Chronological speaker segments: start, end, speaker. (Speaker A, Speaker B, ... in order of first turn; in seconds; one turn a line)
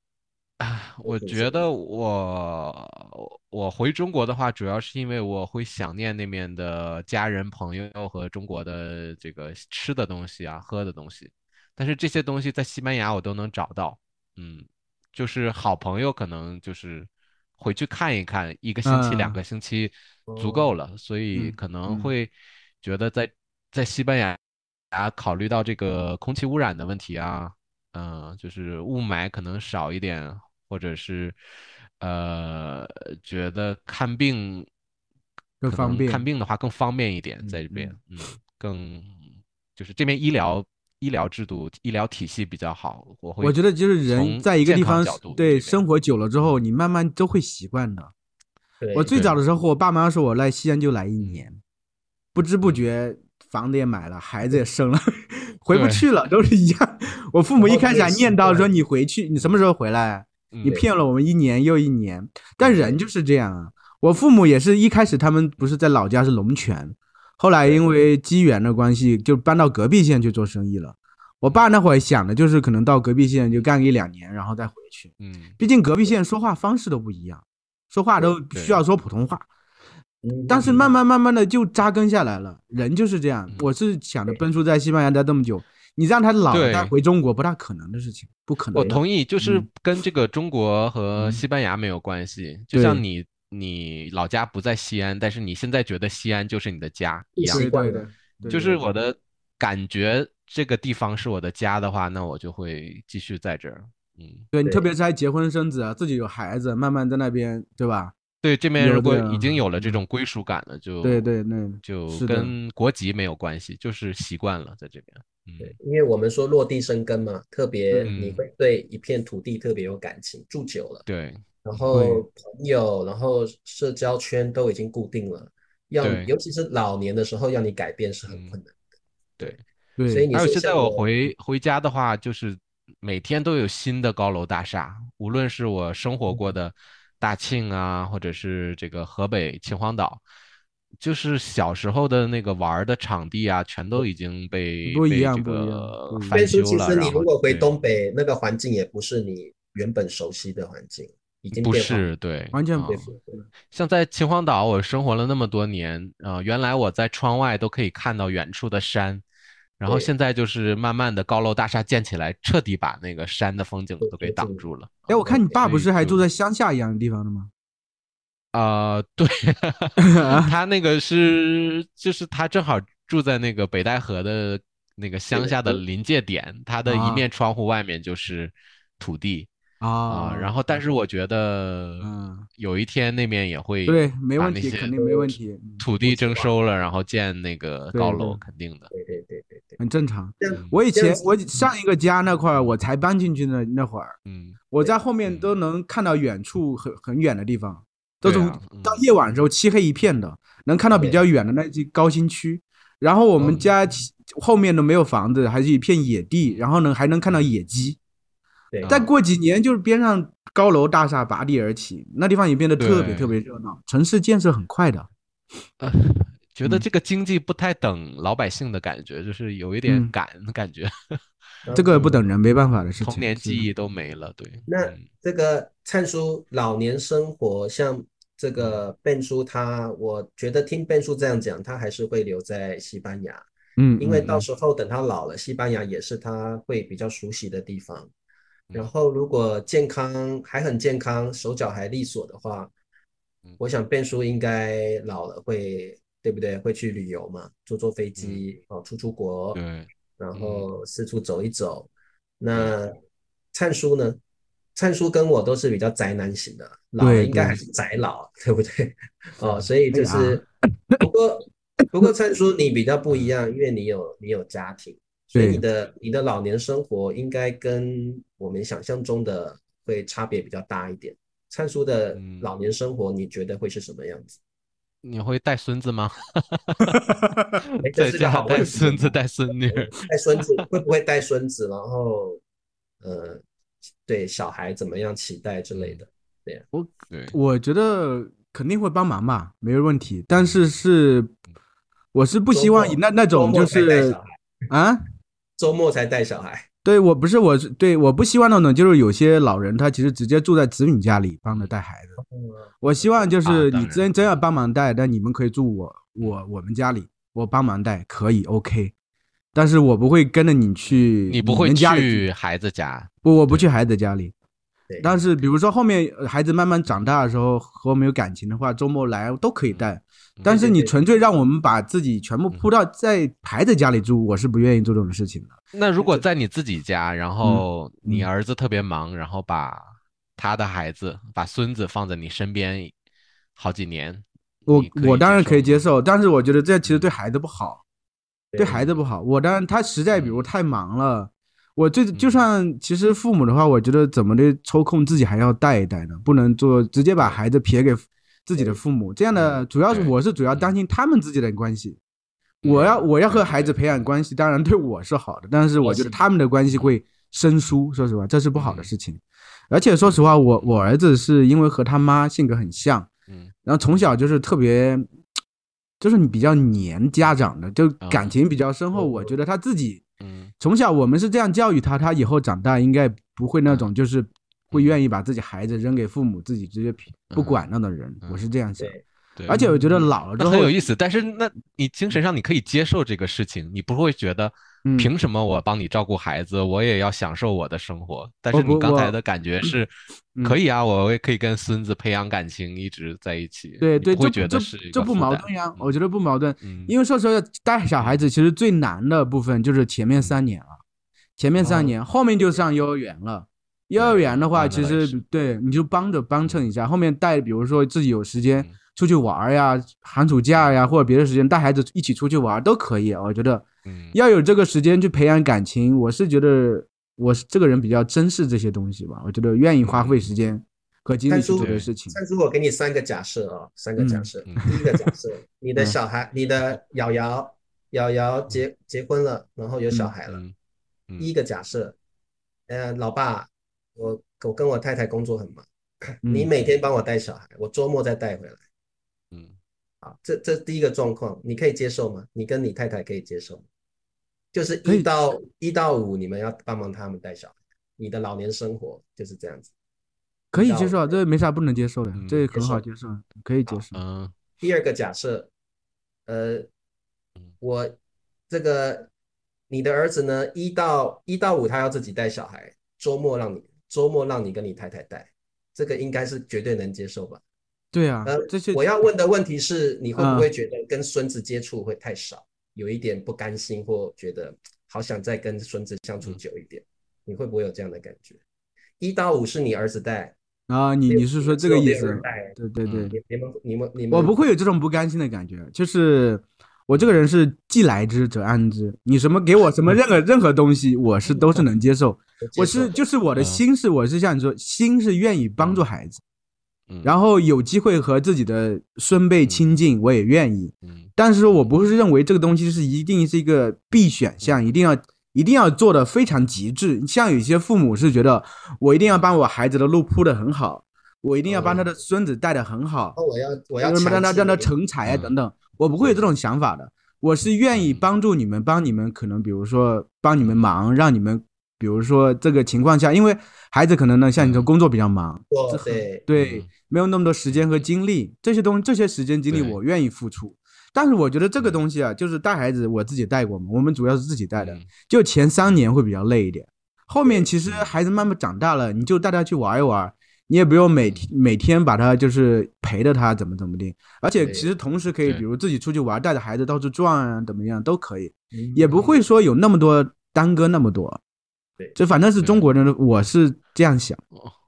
Speaker A: 0.6-24.4
Speaker B: 1.0-1.6
Speaker C: 18.9-19.4
Speaker B: 20.3-20.7
Speaker C: 21.4-22.1
Speaker A: 24.9-31.4
Speaker A: 32.0-34.7
Speaker C: 35.6-36.2
Speaker A: 35.6-45.8
Speaker C: 37.4-38.0
Speaker C: 43.4-48.1
Speaker B: 48.8-49.2
Speaker C: 48.9-51.6
Speaker A: 49.1-49.4
Speaker A: 51.2-51.5
Speaker C: 52.4-79.5
Speaker A: 55.7-56.1
Speaker B: 57.6-58.7
Speaker A: 60.5-60.8
Speaker B: 62.6-63.0
Speaker A: 75.2-75.6
Speaker A: 78.5-78.8
Speaker B: 80.2-80.9
Speaker C: 80.5-89.7
Speaker A: 86.5-86.9
Speaker A: 88.7-97.7
Speaker C: 91.2-91.4
Speaker C: 92.7-93.0
Speaker B: 97.4-98.7
Speaker C: 97.5-98.8
Speaker A: 98.5-104.5
Speaker C: 104.5-108.2
Speaker A: 108.4-111.3
Speaker C: 108.8-110.0
Speaker C: 111.0-112.5
Speaker A: 111.8-115.8
Speaker B: 115.6-121.0
Speaker A: 118.1-118.4
Speaker A: 121.1-121.9
Speaker B: 121.6-128.7
Speaker C: 121.9-122.2
Speaker A: 126.0-126.3
Speaker A: 128.3-128.6
Speaker B: 129.4-131.1
Speaker C: 130.0-130.3
Speaker A: 130.3-140.2
Speaker A: 141.0-147.7
Speaker C: 144.9-146.3
Speaker B: 146.3-152.1
Speaker A: 151.5-153.1
Speaker C: 152.5-153.1
Speaker B: 152.8-153.4
Speaker A: 153.7-159.2
Speaker A: 159.8-166.2
Speaker B: 159.8-160.1
Speaker B: 164.0-165.6
Speaker C: 165.1-167.5
Speaker A: 168.5-179.5
Speaker C: 170.0-170.5
Speaker B: 175.3-175.8
Speaker C: 176.9-177.2
Speaker C: 179.8-180.7
Speaker A: 180.1-184.9
Speaker C: 182.0-182.5
Speaker C: 183.9-185.8
Speaker B: 184.9-185.4
Speaker A: 185.8-188.9
Speaker B: 186.0-186.5
Speaker C: 187.9-188.4
Speaker B: 188.9-189.8
Speaker C: 189.8-194.2
Speaker B: 190.4-191.3
Speaker A: 190.5-190.8
Speaker A: 194.3-194.6
Speaker C: 194.7-208.0
Speaker A: 195.2-195.5
Speaker A: 198.2-199.4
Speaker B: 200.9-201.2
Speaker A: 203.4-203.7
Speaker B: 208.7-209.1
Speaker A: 208.8-209.1
Speaker C: 208.9-215.1
Speaker A: 212.8-213.4
Speaker A: 215.8-221.2
Speaker C: 219.9-220.1
Speaker B: 221.6-222.2
Speaker C: 221.8-223.7
Speaker A: 223.0-225.1
Speaker B: 224.7-233.5
Speaker C: 233.8-234.4
Speaker B: 234.0-238.1
Speaker B: 238.7-242.7
Speaker B: 243.6-249.6
Speaker A: 248.2-248.4
Speaker A: 249.6-250.7
Speaker B: 250.2-251.9
Speaker B: 252.4-252.9
Speaker B: 253.5-254.2
Speaker B: 254.8-260.4
Speaker C: 257.0-257.6
Speaker C: 259.9-261.0
Speaker B: 261.0-274.4
Speaker A: 263.1-263.3
Speaker C: 265.3-265.6
Speaker A: 272.1-272.5
Speaker A: 275.0-277.0
Speaker C: 276.9-277.5
Speaker B: 277.8-282.4
Speaker A: 277.9-280.6
Speaker B: 283.0-283.4
Speaker B: 284.1-286.6
Speaker A: 285.7-286.0
Speaker C: 286.7-291.3
Speaker A: 287.1-287.4
Speaker A: 290.4-290.6
Speaker C: 292.1-294.2
Speaker B: 292.5-294.4
Speaker C: 294.7-295.0
Speaker B: 295.6-296.7
Speaker C: 296.9-302.2
Speaker B: 302.2-303.1
Speaker C: 302.8-308.9
Speaker A: 303.4-304.2
Speaker C: 309.6-312.2
Speaker A: 310.9-313.7
Speaker C: 313.2-314.3
Speaker B: 314.9-315.2
Speaker C: 315.0-325.5
Speaker A: 319.7-320.6
Speaker B: 320.5-320.9
Speaker A: 325.7-332.9
Speaker C: 327.4-328.3
Speaker A: 333.6-335.9
Speaker C: 334.7-337.8
Speaker A: 336.8-337.1
Speaker B: 338.5-338.9
Speaker C: 338.6-352.0
Speaker A: 338.7-339.0
Speaker A: 340.1-340.5
Speaker A: 342.1-342.4
Speaker A: 349.3-350.7
Speaker A: 352.6-354.0
Speaker C: 352.6-363.1
Speaker B: 355.8-356.1
Speaker A: 358.6-358.9
Speaker A: 360.0-360.7
Speaker A: 363.3-363.5
Speaker C: 363.6-365.1
Speaker C: 366.0-370.0
Speaker A: 368.0-368.3
Speaker B: 368.9-369.3
Speaker A: 370.2-370.5
Speaker C: 370.6-378.9
Speaker A: 374.7-375.0
Speaker A: 377.3-377.7
Speaker B: 378.8-379.0
Speaker A: 379.4-389.9
Speaker C: 379.5-380.7
Speaker C: 384.9-385.1
Speaker C: 388.5-389.7
Speaker A: 390.4-396.0
Speaker C: 393.8-400.8
Speaker A: 396.6-396.9
Speaker C: 401.4-422.2
Speaker A: 401.6-401.9
Speaker A: 404.0-405.2
Speaker A: 406.4-406.7
Speaker A: 413.9-414.2
Speaker A: 419.9-420.3
Speaker B: 421.3-430.4
Speaker A: 421.6-421.9
Speaker C: 424.0-424.7
Speaker A: 424.4-424.7
Speaker A: 430.3-430.5
Speaker B: 431.2-432.0
Speaker B: 432.7-438.6
Speaker C: 436.2-436.5
Speaker B: 440.0-443.7
Speaker B: 444.5-449.7
Speaker C: 450.5-454.0
Speaker B: 450.5-451.2
Speaker A: 452.1-452.5
Speaker B: 452.5-452.8
Speaker A: 453.9-454.3
Speaker B: 454.6-455.5
Speaker B: 456.3-456.7
Speaker B: 457.6-458.0
Speaker B: 458.5-459.1
Speaker B: 459.7-467.4
Speaker C: 467.9-468.8
Speaker B: 468.3-478.4
Speaker C: 470.2-470.5
Speaker B: 479.0-480.4
Speaker C: 480.7-483.2
Speaker B: 481.1-482.6
Speaker A: 482.9-483.1
Speaker B: 483.1-484.4
Speaker C: 484.1-496.2
Speaker B: 492.4-493.0
Speaker A: 493.4-493.6
Speaker A: 495.6-495.9
Speaker C: 497.0-513.2
Speaker A: 500.9-501.1
Speaker B: 511.5-511.9
Speaker B: 513.2-514.7
Speaker C: 513.8-551.2
Speaker A: 515.0-515.3
Speaker A: 517.7-518.1
Speaker A: 524.4-524.7
Speaker B: 525.5-526.2
Speaker A: 526.4-526.7
Speaker A: 527.5-527.8
Speaker A: 529.5-529.8
Speaker A: 534.6-534.9
Speaker A: 537.6-537.9
Speaker A: 541.0-541.3
Speaker B: 544.4-544.7
Speaker B: 548.5-549.0
Speaker C: 552.0-554.2
Speaker A: 552.4-552.7